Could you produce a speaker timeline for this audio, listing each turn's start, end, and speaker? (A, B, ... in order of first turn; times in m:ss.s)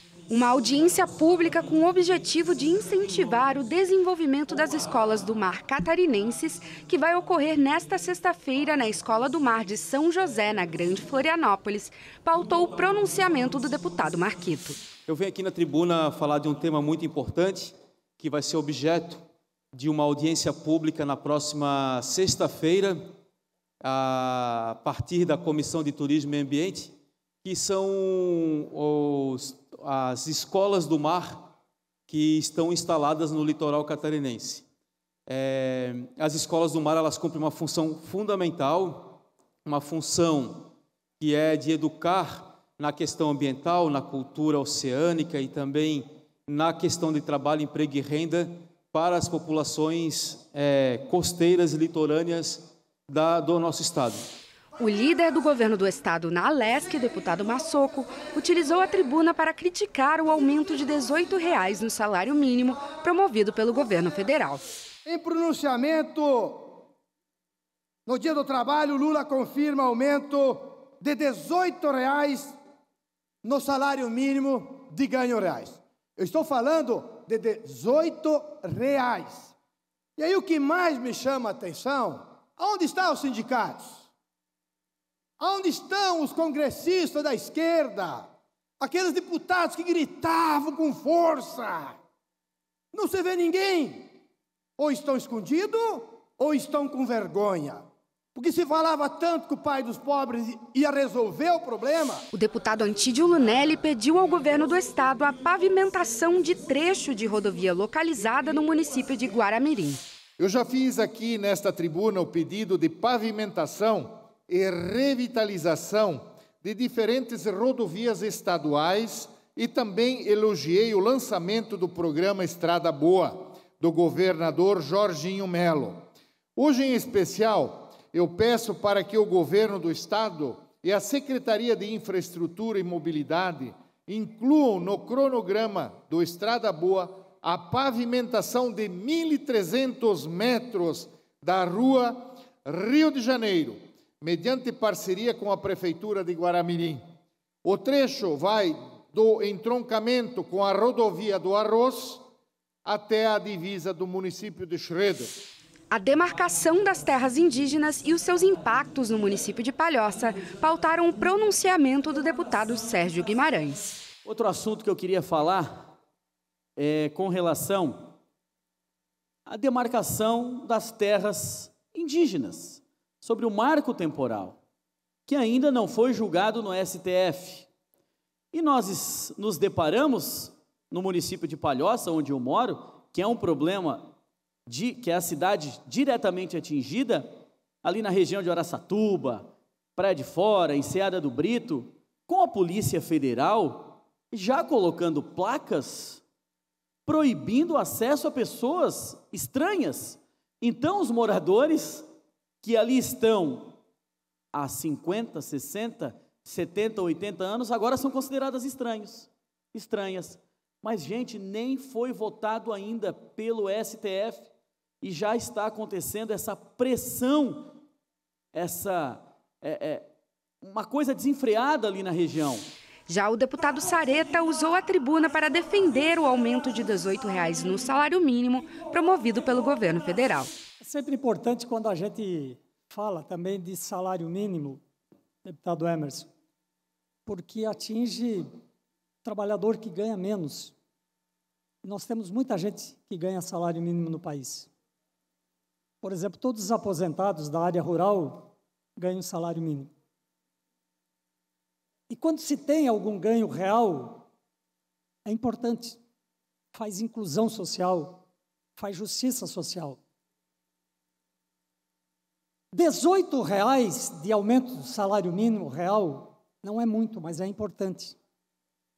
0:00.3-0:14.8 A
0:15.1-0:23.0 B
0:23.8-0:31.5 B
0:32.1-0:34.6 B
0:35.3-0:40.7 B
0:41.2-0:54.3 B
0:54.8-1:04.6 A
1:05.0-1:06.8 C
1:08.1-1:12.6 C
1:13.4-1:19.5 C
1:20.2-1:24.1 C
1:25.4-1:32.0 C
1:32.9-1:34.1 C
1:34.8-1:42.3 C
1:42.3-1:50.0 A
1:50.4-2:06.0 D
2:06.6-2:27.0 D
2:27.6-2:32.2 D
2:32.8-2:35.3 D
2:35.9-2:44.0 A
2:44.3-2:45.9 E
2:46.8-2:48.0 E
2:49.5-2:54.6 E
2:55.3-2:57.7 E
2:58.5-3:04.1 E
3:04.7-3:07.3 E
3:07.8-3:16.2 E
3:17.1-3:22.1 E
3:22.6-3:23.8 E
3:24.5-3:34.5 E
3:35.0-3:37.7 E
3:38.5-3:40.1 E
3:40.6-3:42.7 E
3:43.1-3:50.5 A
3:50.8-3:54.8 F
3:55.4-3:56.3 F
3:57.3-3:58.5 F
3:59.2-4:00.7 F
4:01.8-4:04.7 F
4:06.0-4:09.9 F
4:12.1-4:14.3 F
4:15.2-4:16.0 F
4:16.7-4:18.2 F
4:18.8-4:20.0 F
4:22.7-4:28.2 F